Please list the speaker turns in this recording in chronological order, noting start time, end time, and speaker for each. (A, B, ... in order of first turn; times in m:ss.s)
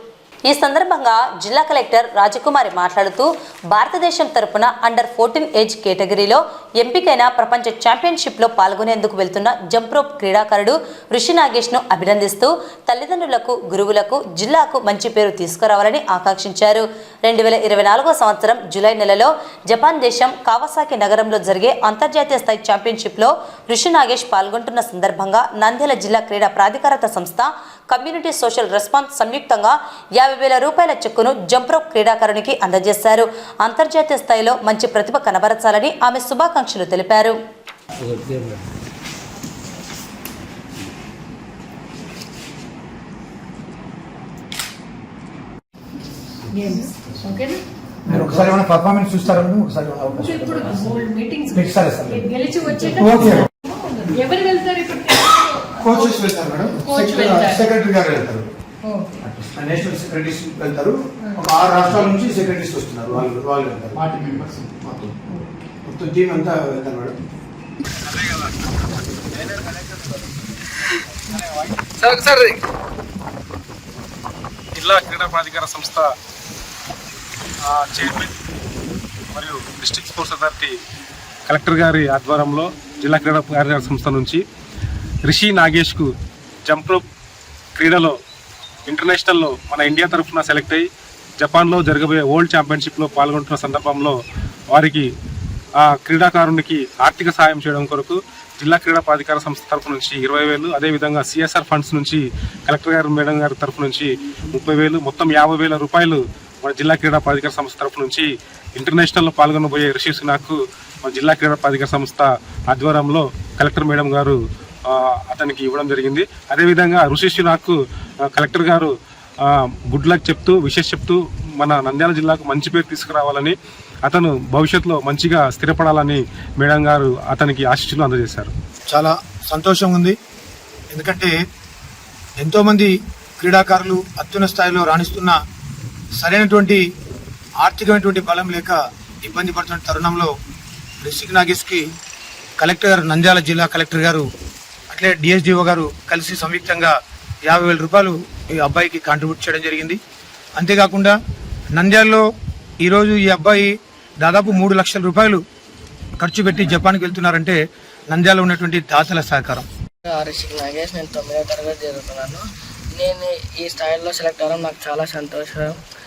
0:00.5-0:37.4 A
0:46.5-0:47.6 B
0:48.1-0:53.5 C
0:50.2-0:51.5 B
0:52.1-0:53.2 B
0:53.7-0:55.3 B
0:55.7-0:58.5 C
0:56.8-0:57.6 B
0:58.9-0:59.1 B
0:59.2-1:05.1 C
1:05.8-1:07.1 C
1:07.9-1:08.7 D
1:09.3-1:12.4 D
1:12.0-1:12.6 E
1:14.7-1:16.1 D
1:17.6-1:18.4 D
1:19.3-1:20.8 D
1:21.5-1:24.4 D
1:25.2-1:26.1 D
1:26.6-1:27.0 D
1:27.8-1:28.1 D
1:28.9-1:30.9 D
1:31.4-1:34.1 D
1:34.7-1:35.1 D
1:35.8-1:57.8 D
1:58.3-2:08.5 D
2:08.9-2:10.1 C
2:10.9-2:11.3 C
2:12.4-2:15.4 C
2:16.2-2:16.8 C
2:17.6-2:20.3 C
2:21.0-2:21.8 C
2:22.6-2:24.2 C
2:24.9-2:26.9 C
2:27.4-2:30.0 C
2:30.6-2:31.2 C
2:31.7-2:32.2 C
2:32.8-2:35.4 C
2:36.2-2:37.6 C
2:38.1-2:39.6 C
2:40.0-2:42.4 E
2:42.9-2:45.7 E